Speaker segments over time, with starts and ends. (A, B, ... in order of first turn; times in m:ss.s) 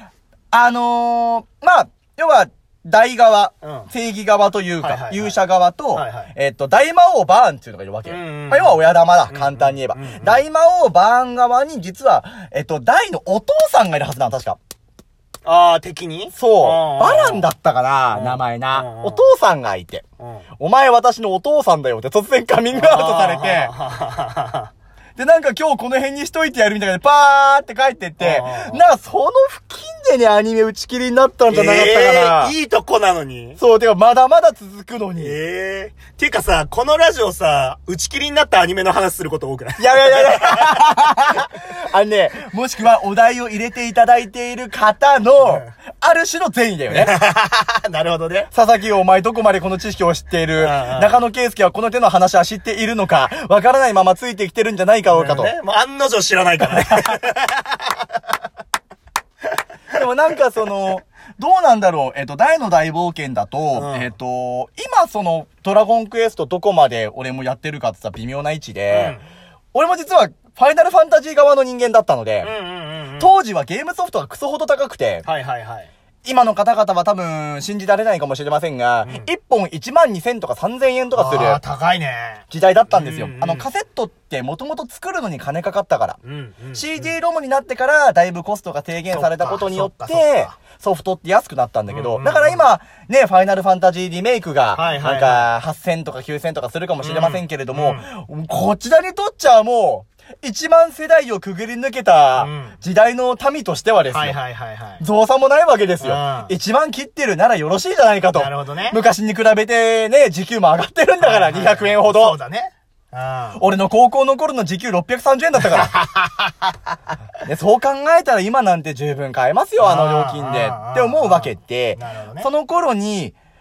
0:00.5-0:14.6 A
0:03.6-0:03.9 B
0:04.8-0:05.4 B
0:05.9-0:06.3 B
0:08.0-0:10.4 B
0:15.4-0:17.4 B
0:16.3-0:20.0 A
0:18.1-0:19.3 B
0:20.2-0:20.4 B
0:20.6-0:23.7 A
0:22.7-0:24.7 B
0:25.2-0:32.5 A
0:28.2-0:28.8 B
0:31.5-0:33.6 B
0:33.6-0:35.4 A
0:35.2-0:41.4 B
0:39.8-0:47.2 A
0:45.4-0:45.7 B
0:46.9-0:48.5 B
0:48.5-0:55.5 A
0:50.6-0:51.2 B
0:55.1-0:58.1 B
0:56.8-0:57.1 A
0:59.9-1:09.2 A
1:03.7-1:04.1 B
1:08.9-1:09.2 B
1:09.7-1:12.5 A
1:12.4-1:13.3 B
1:13.2-1:15.3 A
1:15.2-1:15.9 B
1:16.2-1:21.6 A
1:21.1-1:23.7 B
1:22.5-1:26.2 A
1:26.2-1:27.2 B
1:26.7-1:44.4 A
1:29.1-1:30.6 B
1:31.9-1:32.6 B
1:34.7-1:35.5 B
1:37.0-1:38.1 B
1:42.4-1:42.8 B
1:44.1-1:45.0 B
1:45.0-1:52.4 A
1:46.0-1:46.5 B
1:48.3-1:49.0 B
1:51.2-1:53.6 B
1:53.6-1:55.9 A
1:55.6-1:56.7 B
1:57.4-2:03.3 A
1:59.8-2:02.5 B